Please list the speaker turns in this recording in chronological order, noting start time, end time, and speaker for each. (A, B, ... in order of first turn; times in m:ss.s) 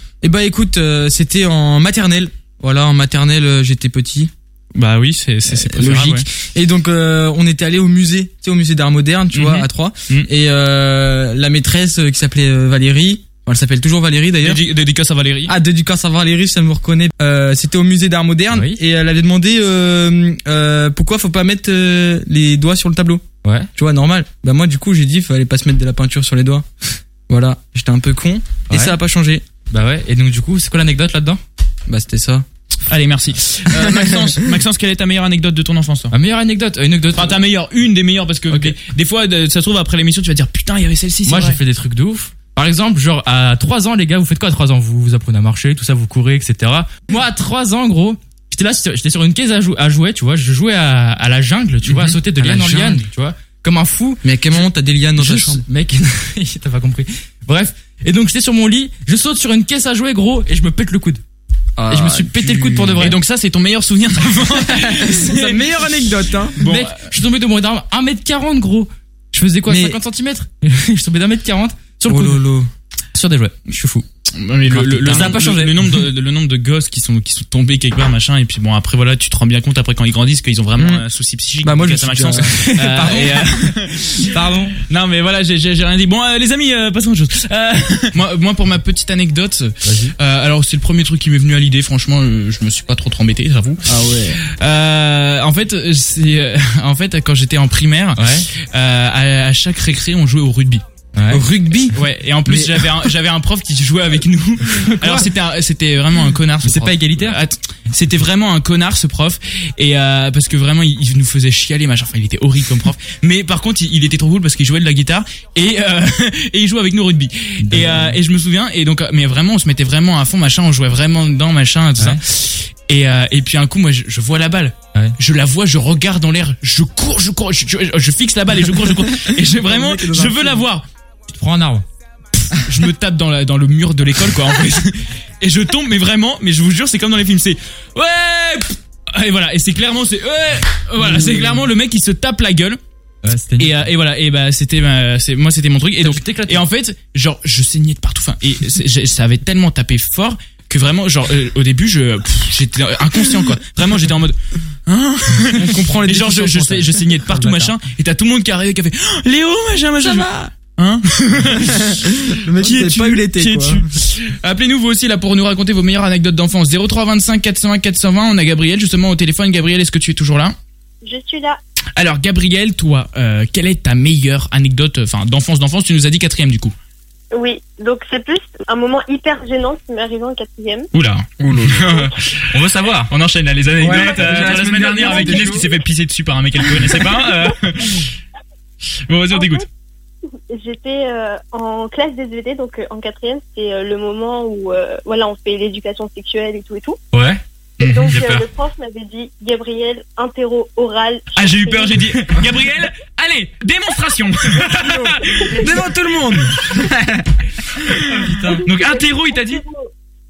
0:00.2-0:04.3 A
0:04.7-0:06.2 B
0:05.4-0:14.6 A
0:09.3-0:10.3 B
0:14.4-0:15.5 B
0:15.5-0:26.6 A
0:18.5-0:18.8 C
0:23.4-0:23.7 C
0:27.3-0:29.4 A
0:28.7-0:29.0 C
0:29.7-0:31.4 C
0:31.9-0:32.4 A
0:32.8-0:36.1 B
0:33.7-0:34.5 A
0:36.1-0:37.4 C
0:37.1-0:41.6 B
0:38.5-0:38.7 C
0:41.2-1:01.2 C
0:52.1-0:53.0 A
0:54.2-0:55.6 A
1:01.8-1:03.0 A
1:01.9-1:03.2 C
1:03.0-1:05.9 B
1:04.9-1:06.6 A
1:06.6-1:07.1 B
1:06.6-1:12.4 C
1:09.7-1:10.0 A
1:12.1-1:12.7 A
1:13.1-1:14.0 C
1:14.3-1:24.3 B
1:14.7-1:15.7 A
1:15.0-1:15.7 C
1:20.8-1:21.0 A
1:21.6-1:23.5 A
1:22.3-1:24.8 C
1:24.8-1:33.9 B
1:29.8-1:30.1 C
1:33.8-1:34.4 A
1:34.4-1:40.8 B
1:38.2-1:38.4 C
1:41.1-1:41.4 C
1:41.3-1:42.9 A
1:41.9-2:10.8 B
1:44.7-1:45.3 C
1:46.6-1:47.4 C
1:57.6-1:58.2 C
2:02.0-2:02.2 C
2:09.2-2:10.6 A
2:11.3-2:11.8 C
2:12.5-2:22.8 B
2:21.0-2:21.6 A
2:23.2-2:23.7 C
2:23.6-2:50.5 B
2:26.0-2:26.6 C
2:35.6-2:37.7 A
2:40.0-2:40.5 A
2:42.2-2:43.8 A
2:51.0-2:51.6 D
2:52.0-2:56.7 B
2:57.3-3:00.9 D
3:00.9-3:08.1 B
3:01.4-3:02.0 A
3:02.5-3:03.1 C
3:03.8-3:05.6 A
3:03.9-3:04.4 D
3:04.9-3:05.7 D
3:09.1-3:09.6 B
3:09.3-3:09.6 D
3:10.5-3:17.0 D
3:17.1-3:18.4 B
3:17.8-3:22.0 D
3:21.3-3:25.7 B
3:24.7-3:27.4 A
3:25.3-3:25.7 D
3:26.5-3:26.8 B
3:27.7-3:29.6 B
3:28.1-3:28.6 A
3:28.4-3:29.9 D